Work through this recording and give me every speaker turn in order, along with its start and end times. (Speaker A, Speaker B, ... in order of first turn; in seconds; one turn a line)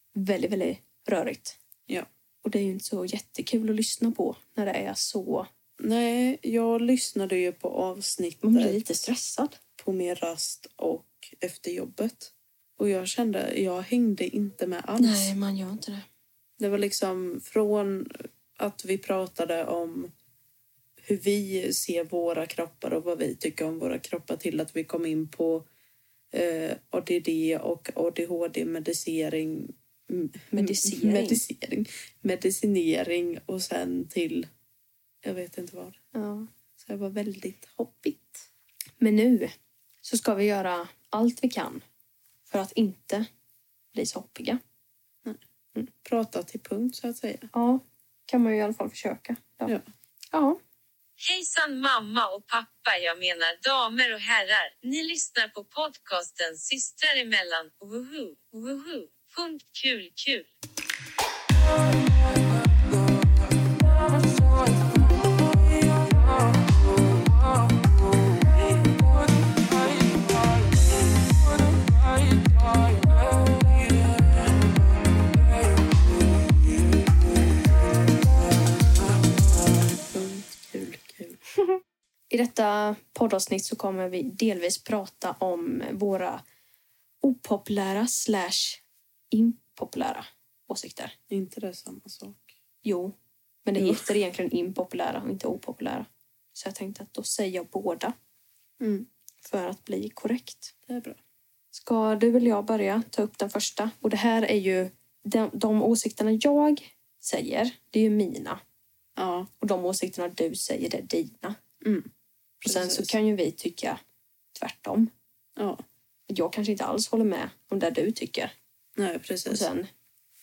Speaker A: 0.1-1.6
Speaker A: 2.4-5.5
Speaker B: 5.8-8.9
Speaker A: 8.4-9.6
Speaker B: 9.8-15.3
Speaker A: 15.0-16.1
Speaker B: 16.6-20.1
Speaker B: 21.0-25.6
Speaker B: 26.3-34.5
Speaker A: 30.5-31.4
Speaker B: 35.2-36.0
Speaker A: 36.1-36.5
Speaker B: 36.8-38.5
Speaker A: 39.0-41.8
Speaker A: 42.5-43.3
Speaker A: 43.9-44.6
Speaker B: 46.0-47.5
Speaker A: 47.5-49.8
Speaker A: 50.3-50.6
Speaker C: 51.2-60.5
Speaker B: 72.3-74.0
Speaker B: 80.1-81.4
Speaker A: 82.3-86.4
Speaker A: 87.2-91.1
Speaker B: 91.3-92.5
Speaker A: 92.8-93.1
Speaker A: 93.7-98.1
Speaker B: 93.8-94.1
Speaker B: 98.8-99.1
Speaker A: 99.4-100.7
Speaker B: 100.9-101.2
Speaker A: 101.7-108.6
Speaker B: 109.2-109.5
Speaker A: 109.6-111.6
Speaker B: 111.8-112.1
Speaker A: 112.6-114.0
Speaker B: 112.6-113.1
Speaker A: 114.5-115.1
Speaker B: 115.6-115.8
Speaker A: 116.3-118.5
Speaker B: 119.0-119.7
Speaker A: 119.5-119.9